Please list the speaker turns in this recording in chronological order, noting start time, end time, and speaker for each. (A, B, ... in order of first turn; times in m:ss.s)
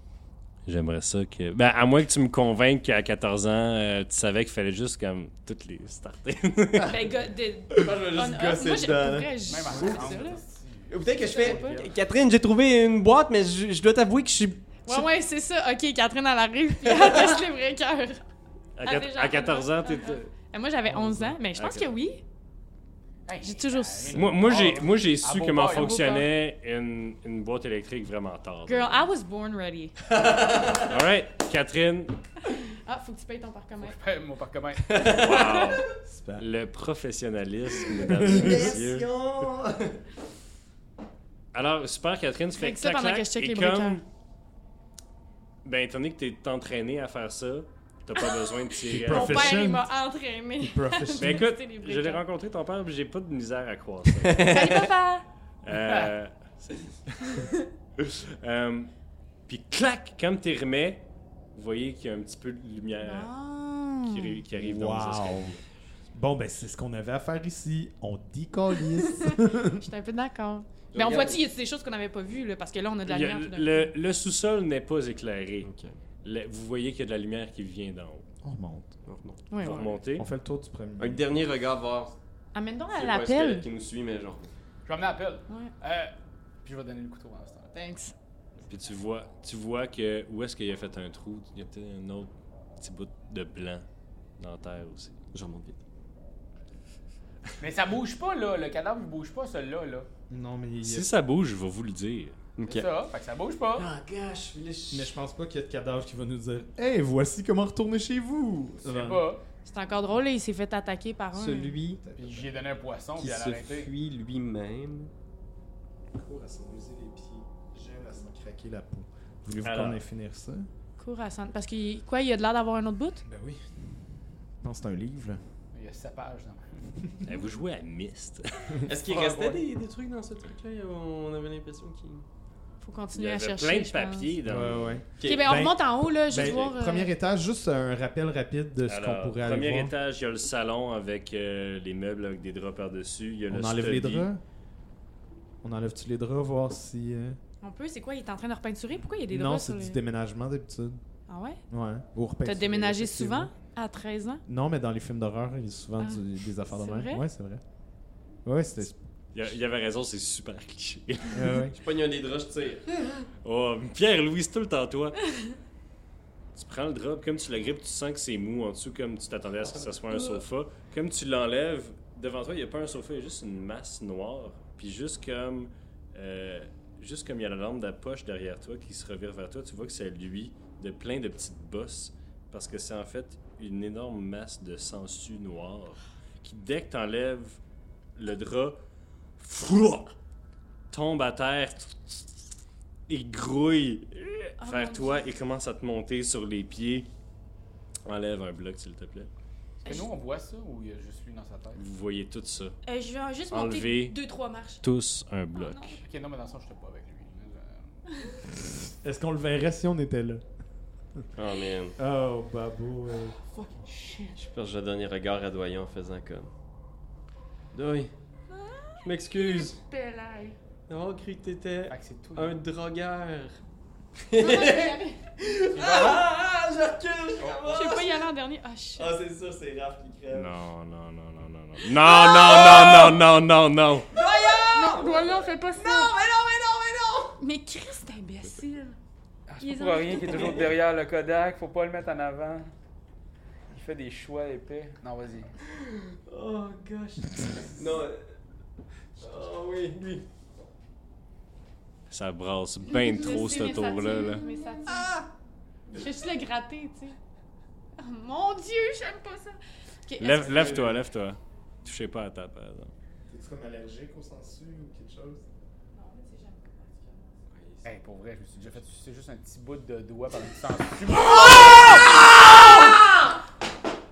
0:00.6-0:07.2 A
0:06.8-0:10.4 B
0:07.7-0:09.2 C
0:09.0-0:10.3 D
0:09.4-0:11.8 E
0:10.9-0:15.1 C
0:11.1-0:11.8 B
0:14.8-0:18.2 B
0:16.8-0:17.4 C
0:18.8-0:20.3 A
0:18.8-0:22.2 B
0:21.5-0:21.9 A
0:23.2-0:26.2 E
0:23.4-0:24.2 B
0:24.1-0:29.0 A
0:25.7-0:26.3 B
0:28.7-0:29.9 B
0:30.1-0:31.0 C
0:30.8-0:32.2 A
0:32.8-0:34.0 B
0:33.8-0:35.3 E
0:34.8-0:35.7 C
0:35.1-0:35.8 A
0:35.3-0:35.8 B
0:36.0-0:36.4 D
0:36.4-0:39.1 A
0:37.9-0:40.0 C
0:38.2-0:38.7 D
0:41.5-0:44.0 A
0:42.6-0:44.0 B
0:45.6-0:49.6 A
0:48.2-0:52.2 B
0:48.9-0:49.9 D
0:50.6-0:51.5 D
0:51.2-0:54.6 A
0:54.2-0:54.9 C
0:54.4-0:55.2 B
0:55.6-0:57.4 A
0:58.0-0:58.9 A
0:59.5-1:03.3 A
1:03.0-1:04.4 B
1:04.0-1:05.6 A
1:04.5-1:05.5 D
1:06.1-1:09.8 D
1:09.2-1:13.9 B
1:10.9-1:11.4 C
1:13.0-1:15.7 A
1:15.6-1:16.0 C
1:16.2-1:18.2 A
1:18.4-1:19.0 D
1:19.0-1:19.9 C
1:19.5-1:19.9 B
1:19.6-1:20.3 A
1:20.1-1:21.2 D
1:21.0-1:22.1 C
1:22.5-1:23.7 B
1:22.9-1:24.5 C
1:24.8-1:27.7 E
1:27.7-1:28.1 B
1:28.7-1:33.8 A
1:34.4-1:35.2 A
1:35.3-1:35.8 C
1:37.6-1:40.1 E
1:40.3-1:41.1 D
1:40.8-1:42.4 A
1:42.6-1:42.9 C
1:42.6-1:43.9 E
1:43.8-1:45.1 C
1:44.9-1:49.3 D
1:48.8-1:49.4 E
1:49.6-1:51.8 B
1:51.3-1:52.0 C
1:52.0-1:52.5 D
1:52.2-1:53.9 E
1:53.2-1:55.1 C
1:56.1-2:00.7 D
1:59.6-2:00.0 A
2:01.0-2:03.2 B
2:03.3-2:03.6 E
2:04.6-2:05.4 D
2:05.7-2:06.9 E
2:07.2-2:08.8 A
2:08.9-2:12.2 C
2:09.0-2:09.6 E
2:12.8-2:14.3 B
2:13.1-2:15.0 A
2:14.4-2:19.9 D
2:15.2-2:15.5 C
2:15.2-2:17.1 B
2:18.8-2:24.3 A
2:23.5-2:24.4 D
2:25.6-2:27.4 D
2:27.6-2:30.0 B
2:29.3-2:31.0 D
2:31.3-2:31.6 B
2:31.7-2:33.5 D
2:32.4-2:34.4 B
2:34.4-2:37.6 D
2:36.0-2:37.2 B
2:38.4-2:39.0 D
2:39.3-2:41.6 A
2:41.3-2:41.8 D
2:41.7-2:43.3 C
2:43.4-2:45.2 A
2:46.5-3:07.6 A
3:08.1-3:08.8 A
3:09.4-3:10.1 A
3:10.9-3:12.4 A
3:13.1-3:17.1 A
3:14.6-3:15.2 B
3:18.0-3:19.3 A
3:19.8-3:21.8 E
3:21.7-3:22.8 A
3:22.8-3:24.8 B
3:23.5-3:24.2 A
3:24.8-3:26.0 A
3:25.6-3:26.0 B
3:26.0-3:27.9 E
3:28.8-3:30.4 D
3:31.3-3:32.0 C
3:32.0-3:33.4 D
3:33.4-3:34.4 E
3:34.3-3:36.5 C
3:37.7-3:38.1 C
3:38.7-3:40.6 B
3:39.0-3:39.8 C
3:40.9-3:43.6 C
3:41.9-3:42.6 E
3:44.2-3:48.3 C
3:44.4-3:45.2 B
3:45.7-3:46.2 E
3:47.4-3:47.8 E
3:47.7-3:49.1 B
3:49.0-3:50.5 C
3:50.3-3:54.1 A
3:52.0-3:53.1 C
3:54.1-3:57.4 C
3:54.2-3:56.1 B
3:57.4-3:59.0 B
3:59.5-4:02.7 E
3:59.6-4:00.6 B
4:00.2-4:00.6 C
4:03.7-4:05.5 E
4:05.8-4:08.2 C
4:09.2-4:10.2 C
4:12.1-4:14.5 A
4:12.9-4:15.2 B
4:14.8-4:15.3 C
4:15.9-4:17.2 B
4:18.0-4:20.9 B
4:20.2-4:22.9 A
4:20.6-4:20.9 D
4:23.3-4:25.4 D
4:25.9-4:27.4 B
4:27.5-4:27.9 C
4:27.8-4:32.0 E